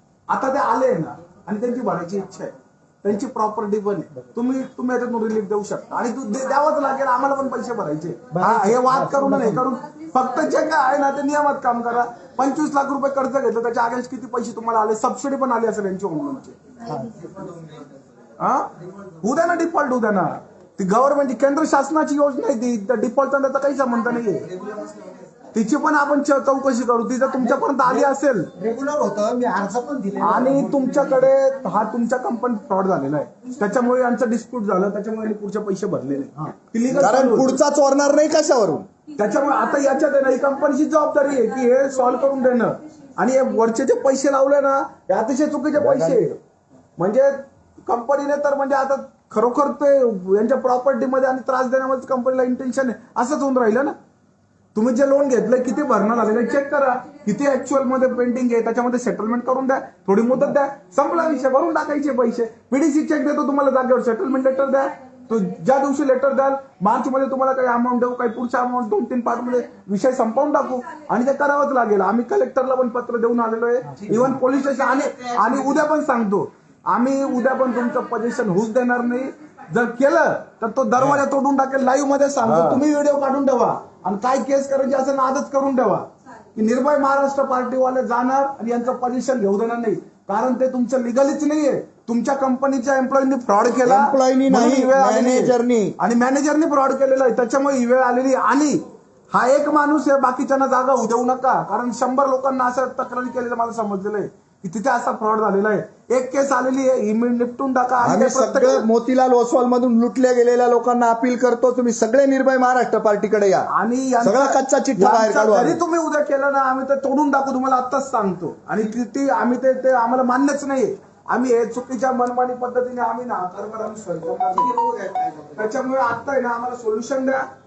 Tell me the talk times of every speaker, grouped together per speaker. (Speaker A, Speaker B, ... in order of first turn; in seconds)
Speaker A: 0.3-16.6, 18.4-24.5, 25.5-28.5, 30.2-37.6, 39.1-46.4, 47.0-53.9, 54.7-108.8, 113.7-124.8, 125.5-127.4
Speaker B: 8.4-8.8, 36.9-38.9, 45.8-46.2, 82.4-82.8, 93.8-96.0, 108.0-113.7, 114.2-115.8
Speaker C: 8.9-9.3, 16.9-17.8, 24.6-25.1, 28.5-30.8, 124.8-125.6